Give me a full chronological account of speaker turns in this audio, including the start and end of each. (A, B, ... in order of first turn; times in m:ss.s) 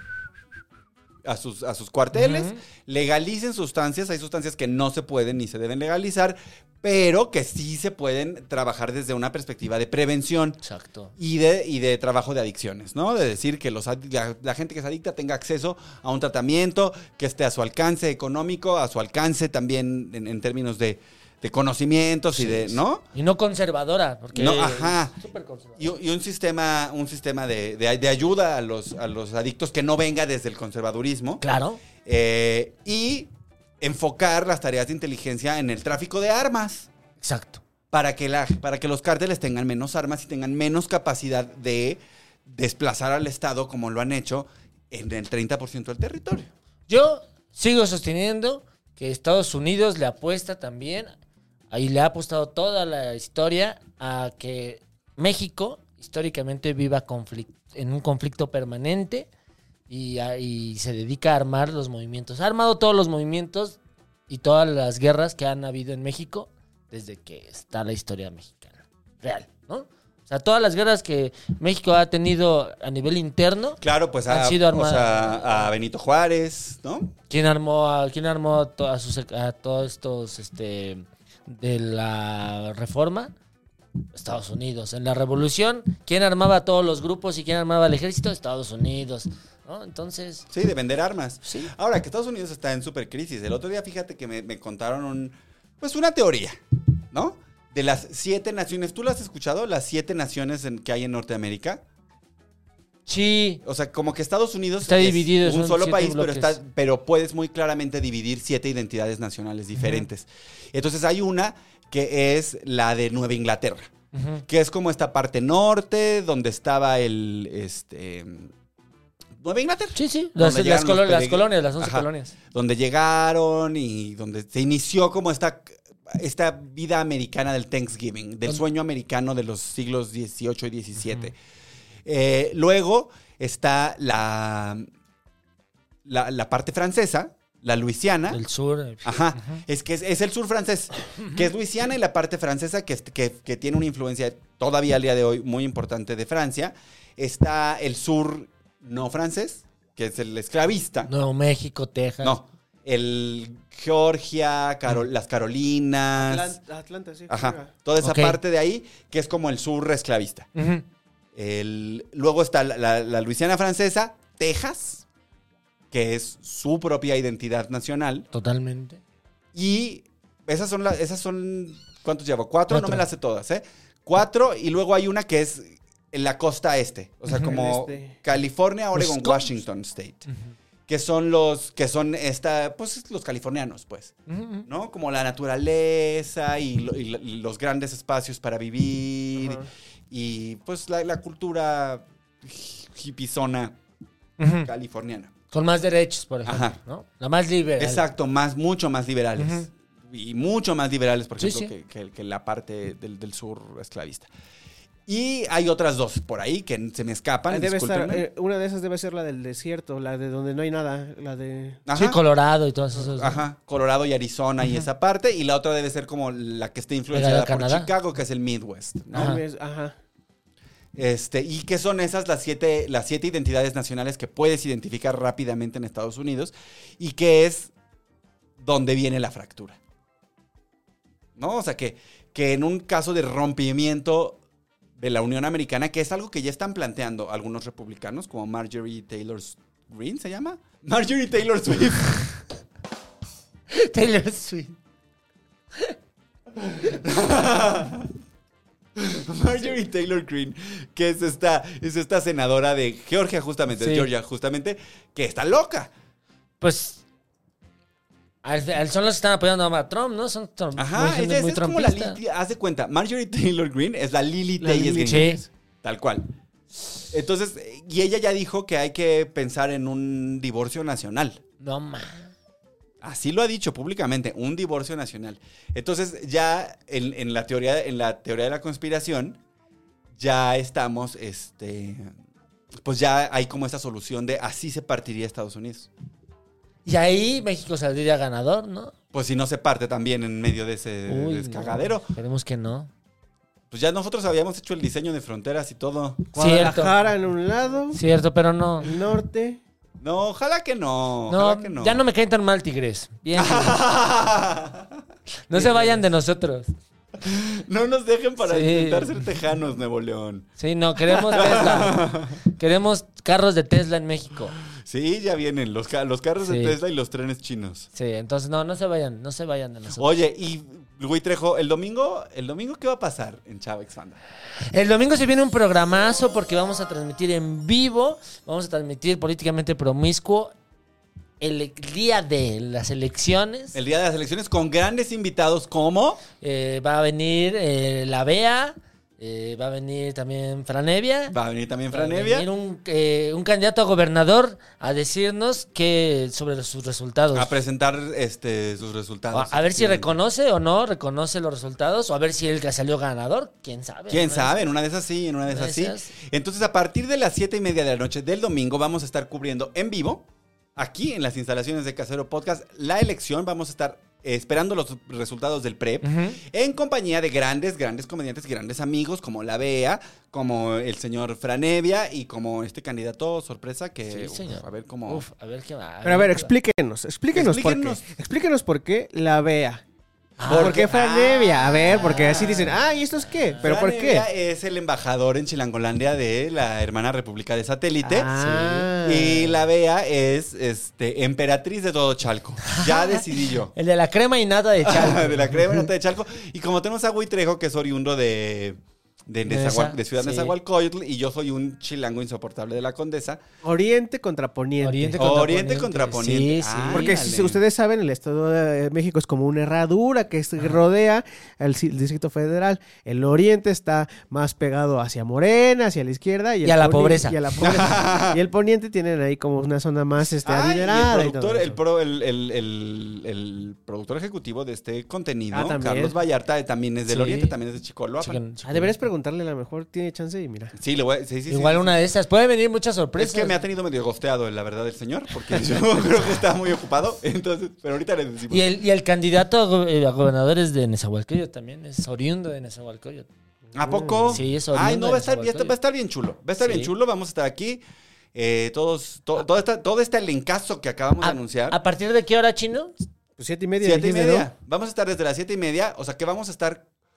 0:01.2-0:10.6 A
0:02.1-0:02.6 B
0:10.6-0:11.1 B
0:11.2-0:23.0 A
0:22.3-0:25.9 B
0:24.3-0:25.2 A
0:25.8-0:31.4 A
0:31.4-0:31.8 B
0:32.0-0:33.3 A
0:33.8-0:36.9 A
0:37.2-0:37.6 B
0:37.9-0:46.5 A
0:46.9-0:51.1 B
0:51.7-0:59.3 B
0:59.9-1:03.8 B
1:04.3-1:15.7 B
1:13.8-1:17.1 A
1:17.3-1:23.3 B
1:24.1-1:30.4 B
1:30.5-1:36.6 A
1:31.4-1:31.7 B
1:37.1-1:41.8 A
1:43.1-1:43.6 B
1:43.6-1:53.9 A
1:44.8-1:46.6 B
1:49.7-1:50.0 B
1:54.1-1:54.4 B
1:54.5-1:58.5 A
1:59.4-2:11.3 A
1:59.9-2:02.3 B
2:11.0-2:11.3 B
2:12.0-2:14.8 A
2:16.0-2:18.4 A
2:18.3-2:19.6 B
2:19.0-2:31.1 A
2:31.1-2:32.4 B
2:32.2-2:36.6 A
2:36.2-2:37.7 C
2:37.3-2:40.5 A
2:38.0-2:38.4 B
2:40.5-2:40.8 B
2:41.3-2:45.0 A
2:45.9-2:48.3 A
2:48.3-2:49.0 B
2:49.5-3:00.2 A
2:52.7-2:53.0 B
2:57.4-2:58.2 C
2:58.9-2:59.5 B
3:00.9-3:04.1 A
3:04.3-3:04.6 B
3:04.7-3:13.8 A
3:09.4-3:09.7 C
3:14.4-3:14.7 B
3:14.6-3:15.3 A
3:15.5-3:18.0 B
3:16.4-3:16.8 A
3:17.8-3:24.3 A
3:19.4-3:19.7 B
3:21.4-3:21.7 B
3:25.1-3:28.2 A
3:27.5-3:31.8 C
3:31.9-3:32.2 A
3:31.9-3:33.4 B
3:33.1-3:39.4 A
3:37.1-3:37.9 B
3:39.1-3:40.0 C
3:39.1-3:39.4 B
3:40.9-3:47.7 A
3:48.6-3:49.8 A
3:51.4-3:54.4 A
3:55.0-4:02.3 A
4:03.7-4:04.8 B
4:06.6-4:08.1 A
4:09.0-4:15.9 A
4:13.7-4:14.1 B
4:16.6-4:17.0 B
4:18.4-4:22.2 B
4:20.8-4:26.3 A
4:24.6-4:25.5 C
4:25.1-4:25.4 B
4:27.1-4:31.4 A
4:31.6-4:32.3 B
4:33.0-4:39.4 A
4:40.2-4:42.1 A
4:42.8-4:45.9 A
4:46.8-4:48.9 B
4:49.1-4:52.1 A
4:51.1-4:52.9 B
4:53.7-4:56.3 A
4:56.3-4:58.0 C
4:56.4-4:56.9 B
4:57.9-4:58.9 B
4:58.8-4:59.6 C
5:00.0-5:02.0 A
5:01.3-5:03.8 B
5:03.4-5:05.0 A
5:05.5-5:06.7 B
5:05.5-5:06.0 A
5:07.2-5:10.5 A
5:08.4-5:09.2 B
5:10.6-5:14.5 B
5:11.1-5:12.4 A
5:14.7-5:17.9 A
5:16.4-5:16.8 B
5:17.9-5:20.1 B
5:20.0-5:24.2 A
5:24.7-5:30.5 B
5:31.4-5:33.8 B
5:33.7-5:36.2 A
5:36.4-5:41.3 B
5:41.3-5:42.5 A
5:41.9-5:47.6 B
5:47.3-5:50.1 A
5:49.3-5:54.7 B
5:54.1-6:15.2 A
5:55.5-5:56.1 B
6:06.0-6:06.4 B
6:14.1-6:16.5 B
6:16.0-6:19.8 C
6:17.3-6:18.0 A
6:20.4-6:20.9 B
6:20.4-6:22.6 A
6:20.5-6:24.3 C
6:21.9-6:23.6 B
6:23.6-6:28.3 A
6:28.0-6:29.5 C
6:28.3-6:28.9 B
6:29.0-6:33.7 A
6:32.7-6:33.2 B
6:33.7-6:35.8 B
6:34.8-6:43.4 A
6:39.5-6:40.5 B
6:43.6-6:45.2 C
6:44.8-6:47.1 B
6:45.2-6:47.6 A
6:46.9-7:01.8 C
6:56.6-6:57.6 B
6:57.6-6:58.4 A
7:00.4-7:08.4 A
7:05.5-7:06.1 C
7:07.1-7:07.5 B
7:08.2-7:09.0 B
7:08.6-7:10.7 C
7:10.8-7:11.9 A
7:11.5-7:13.5 B
7:13.2-7:18.6 A
7:18.5-7:23.3 B
7:23.7-7:27.8 A
7:23.8-7:24.4 C
7:24.3-7:25.7 B
7:26.6-7:26.9 B
7:28.3-7:31.8 A
7:31.2-7:32.9 B
7:33.4-7:34.5 C
7:33.8-7:36.8 A